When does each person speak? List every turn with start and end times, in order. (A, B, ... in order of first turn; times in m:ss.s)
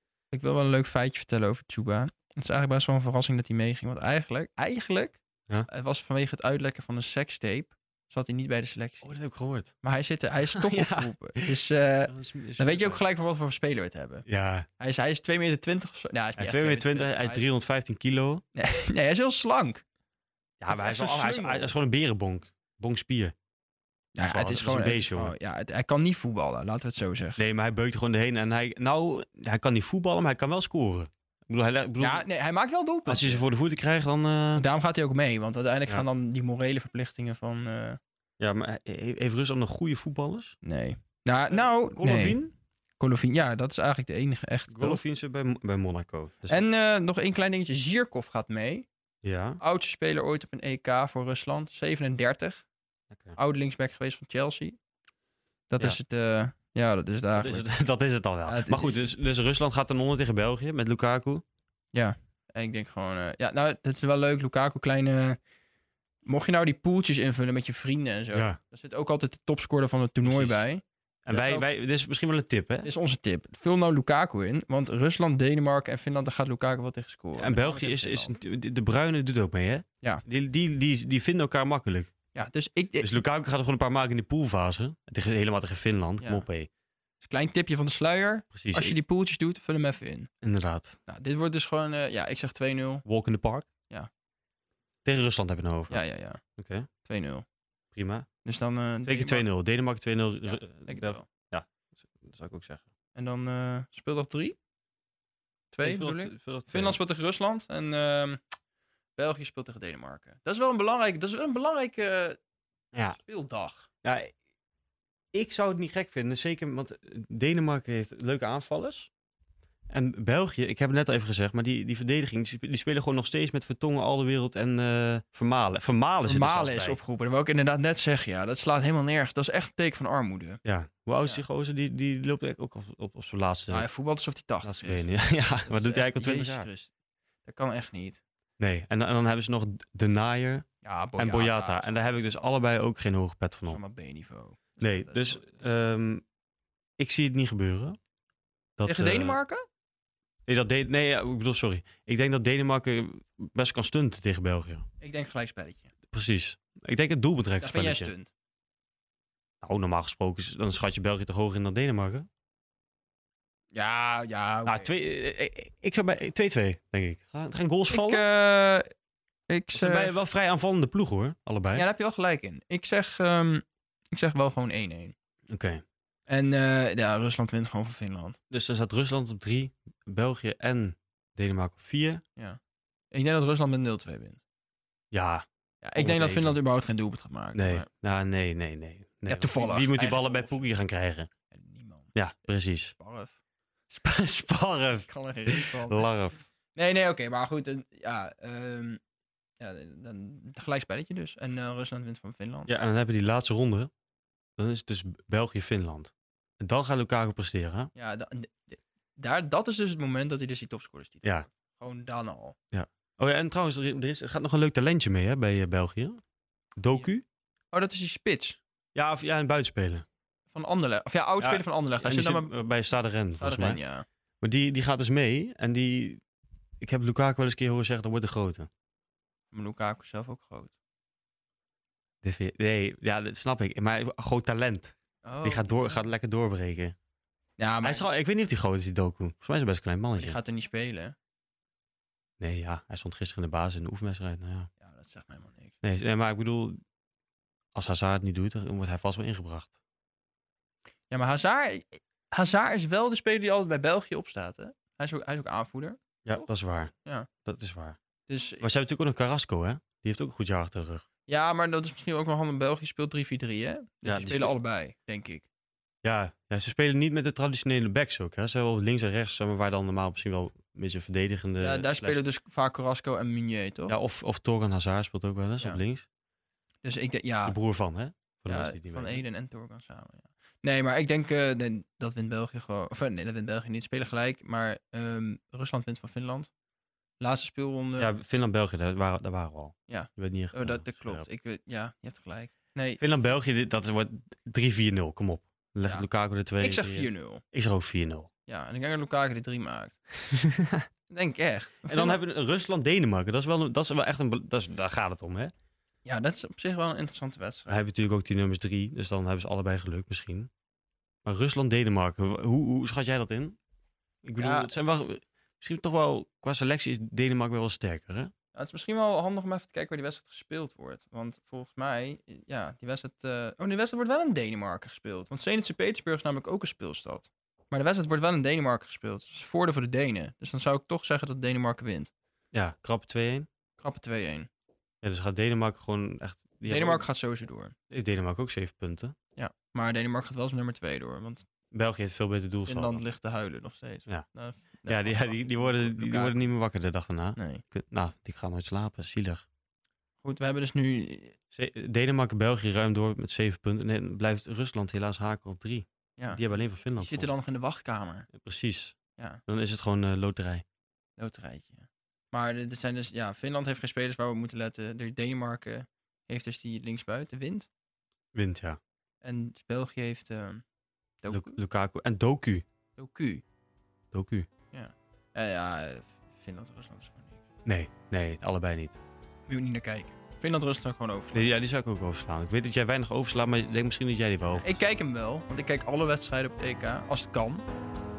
0:00.3-0:09.1 A
0:09.0-0:09.7 B
0:09.8-0:14.2 A
0:10.5-0:11.5 B
0:12.1-0:13.0 B
0:14.3-0:14.7 B
0:14.8-0:17.4 A
0:16.4-0:18.4 B
0:18.6-0:19.8 A
0:20.6-0:23.4 B
0:20.7-0:21.7 A
0:24.2-0:27.4 A
0:24.2-0:25.3 B
0:27.4-0:32.2 B
0:32.0-0:33.4 A
0:33.1-0:34.7 B
0:34.6-0:38.0 A
0:38.4-0:40.6 B
0:40.6-0:42.4 A
0:41.5-0:42.5 B
0:43.0-0:45.0 A
0:44.7-0:46.7 B
0:46.5-0:48.9 A
0:49.2-0:49.6 B
0:49.6-0:52.6 A
0:53.1-0:53.4 B
0:53.4-0:54.8 A
0:55.7-0:57.7 A
0:57.4-1:01.4 B
0:58.5-0:59.1 A
1:01.9-1:05.4 A
1:06.2-1:11.7 A
1:08.3-1:08.6 B
1:10.2-1:10.6 B
1:11.3-1:12.9 B
1:12.8-1:18.3 A
1:17.4-1:22.1 B
1:22.4-1:23.2 A
1:23.0-1:26.7 B
1:26.2-1:26.5 A
1:27.2-1:30.3 A
1:28.5-1:29.0 B
1:30.4-1:31.0 B
1:31.1-1:33.0 A
1:33.1-1:33.7 B
1:35.0-1:36.0 B
1:35.9-1:36.4 A
1:36.6-1:36.9 B
1:37.0-1:37.4 A
1:37.9-1:38.3 B
1:38.4-1:39.5 A
1:39.1-1:42.8 B
1:40.5-1:41.3 A
1:43.2-1:44.6 A
1:45.7-1:48.4 A
1:45.8-1:47.0 B
1:49.2-1:52.4 A
1:53.0-1:53.9 A
1:54.0-1:54.3 B
1:55.3-1:59.1 B
1:59.9-2:07.0 B
2:06.2-2:10.6 A
2:10.6-2:13.9 B
2:13.7-2:16.9 A
2:14.6-2:16.7 B
2:17.4-2:18.2 A
2:18.6-2:20.6 B
2:20.8-2:22.1 A
2:21.2-2:23.8 B
2:23.7-2:25.4 A
2:24.8-2:26.2 B
2:27.0-2:28.0 B
2:28.8-2:29.4 B
2:28.9-2:29.6 A
2:30.5-2:34.9 B
2:35.0-2:35.9 A
2:36.1-2:38.1 B
2:37.6-2:38.3 A
2:39.6-2:42.3 B
2:43.7-2:44.9 A
2:44.7-2:48.2 B
2:47.9-2:48.9 A
2:49.5-2:50.2 A
2:49.7-2:51.9 B
2:51.8-2:55.2 A
2:55.5-2:55.8 B
2:56.3-2:58.4 A
2:58.5-3:02.2 B
3:03.1-3:04.4 A
3:05.1-3:06.6 B
3:05.8-3:07.9 A
3:07.6-3:11.3 B
3:09.3-3:10.7 A
3:11.5-3:12.1 A
3:12.2-3:12.9 B
3:12.9-3:13.4 A
3:13.9-3:16.4 B
3:15.1-3:16.1 A
3:16.8-3:19.0 A
3:19.6-3:22.7 A
3:22.7-3:23.9 B
3:24.6-3:27.9 B
3:28.0-3:32.6 A
3:32.7-3:36.2 B
3:36.8-3:37.2 B
3:37.7-3:38.6 A
3:39.0-3:40.1 B
3:40.5-3:42.5 A
3:41.4-3:43.8 B
3:43.4-3:44.0 A
3:44.4-3:46.2 B
3:46.8-3:48.7 B
3:49.5-3:50.7 A
3:52.2-3:57.0 B
3:55.2-3:56.0 A
3:57.6-3:58.1 A
3:57.8-4:00.4 B
4:00.2-4:01.2 A
4:02.4-4:04.7 B
4:04.8-4:05.8 A
4:05.8-4:06.8 B
4:07.8-4:09.7 B
4:11.1-4:16.5 A
4:16.3-4:16.9 B
4:17.4-4:18.0 B
4:18.3-4:18.6 A
4:18.6-4:21.0 B
4:21.3-4:25.5 A
4:24.1-4:24.6 B
4:26.0-4:32.2 B
4:31.6-4:34.0 A
4:33.9-4:36.0 B
4:36.8-4:37.6 A
4:37.4-4:39.2 B
4:38.5-4:46.5 A
4:47.2-4:48.1 A
4:48.0-4:51.3 B
4:49.9-4:53.0 A
4:53.0-4:58.3 B
4:56.6-4:57.4 A
4:58.5-5:00.0 A
5:00.3-5:00.9 B
5:01.1-5:02.2 A
5:01.9-5:05.5 B
5:06.0-5:07.8 A
5:07.7-5:10.5 B
5:11.2-5:13.6 B
5:14.2-5:18.3 B
5:14.4-5:14.7 A
5:18.5-5:32.1 A
5:32.5-5:33.5 B
5:33.8-5:34.5 A
5:35.0-5:37.0 B
5:36.7-5:37.8 A
5:37.9-5:39.1 B
5:39.4-5:41.4 A
5:41.7-5:43.0 B
5:42.7-5:46.4 A
5:44.9-5:49.4 B
5:47.4-5:47.6 A
5:50.2-5:51.4 A
5:51.5-5:57.3 B
5:57.0-5:58.3 A
5:58.3-5:59.0 B
5:59.5-6:00.6 B
6:01.2-6:07.7 A
6:08.4-6:08.8 B
6:09.2-6:10.6 A
6:11.2-6:11.6 A
6:11.3-6:12.6 B
6:13.0-6:13.4 A
6:14.1-6:14.5 B
6:14.7-6:17.4 A
6:17.6-6:19.0 B
6:19.5-6:21.5 A
6:21.3-6:24.9 B
6:24.5-6:27.7 A